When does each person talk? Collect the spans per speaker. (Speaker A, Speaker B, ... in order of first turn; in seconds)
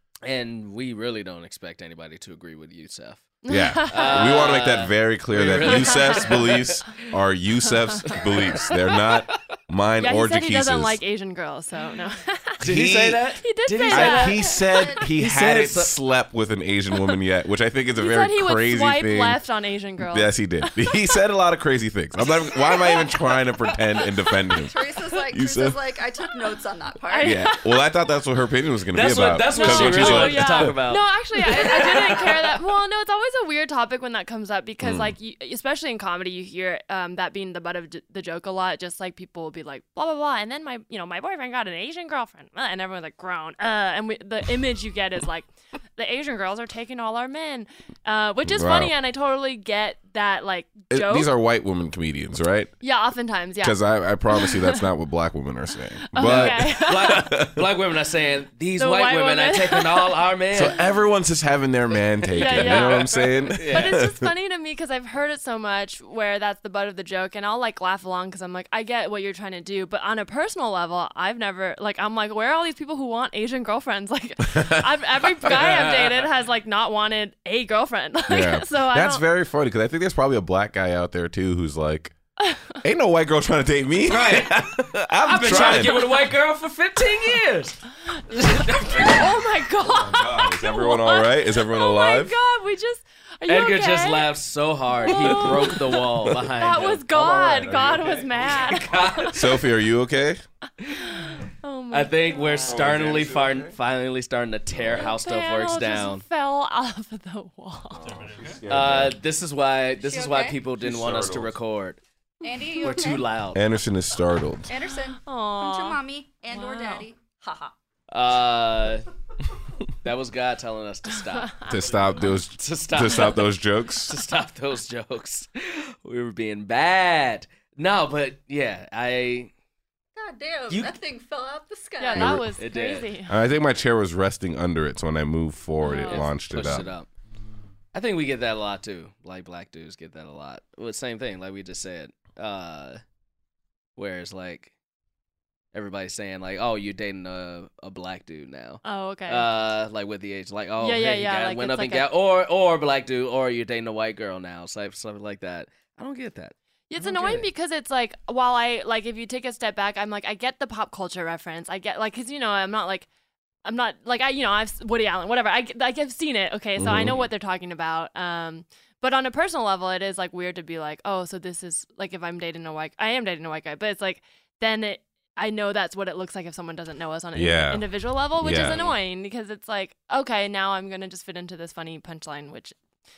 Speaker A: 0.2-3.3, 3.9-7.0, 8.1-9.1, 12.6-14.6, 15.2-15.9, 28.9-32.6, 56.2-60.8, 62.3-64.0, 75.4-76.3, 84.1-89.3, 93.5-99.5, 101.9-106.2, 108.4-112.0, 112.8-113.6, 118.1-119.1, 120.0-121.8, 122.6-123.5, 124.0-129.5, 130.7-130.9, 132.6-133.1, 136.1-137.1, 137.9-143.0, 144.0-144.7, 145.7-157.5, 178.5-178.9
Speaker B: 3.4-4.5, 10.0-12.6, 13.4-14.7, 17.9-21.1, 22.6-23.3, 27.1-27.8, 29.4-51.3, 52.8-53.8, 54.3-54.8, 56.1-57.3, 58.8-60.1, 62.3-79.2, 82.4-82.8, 85.5-86.0, 88.3-94.3, 95.0-99.4, 100.9-102.8, 105.0-108.2, 115.2-116.0, 116.5-117.0, 132.0-133.4, 135.8-136.3, 148.8-149.5, 150.8-152.1, 156.9-163.1, 163.6-182.8
Speaker C: 3.5-11.0, 12.6-13.2, 13.9-19.4, 20.0-25.8, 27.2-30.8, 34.8-35.1, 48.4-48.9, 50.9-52.7, 53.6-57.7, 60.5-64.3, 74.4-74.9, 78.3-82.1, 82.8-86.1, 88.9-92.3, 95.2-95.6, 96.4-98.5, 99.3-100.4, 102.6-103.7, 104.7-105.1, 108.0-109.2, 110.8-111.5, 113.5-114.7, 121.7-124.2, 132.2-132.4, 133.3-136.9, 166.8-167.2, 177.3-178.8
Speaker D: 14.7-15.0, 24.6-27.5, 110.0-110.6, 112.4-113.3, 114.7-117.7, 130.2-132.4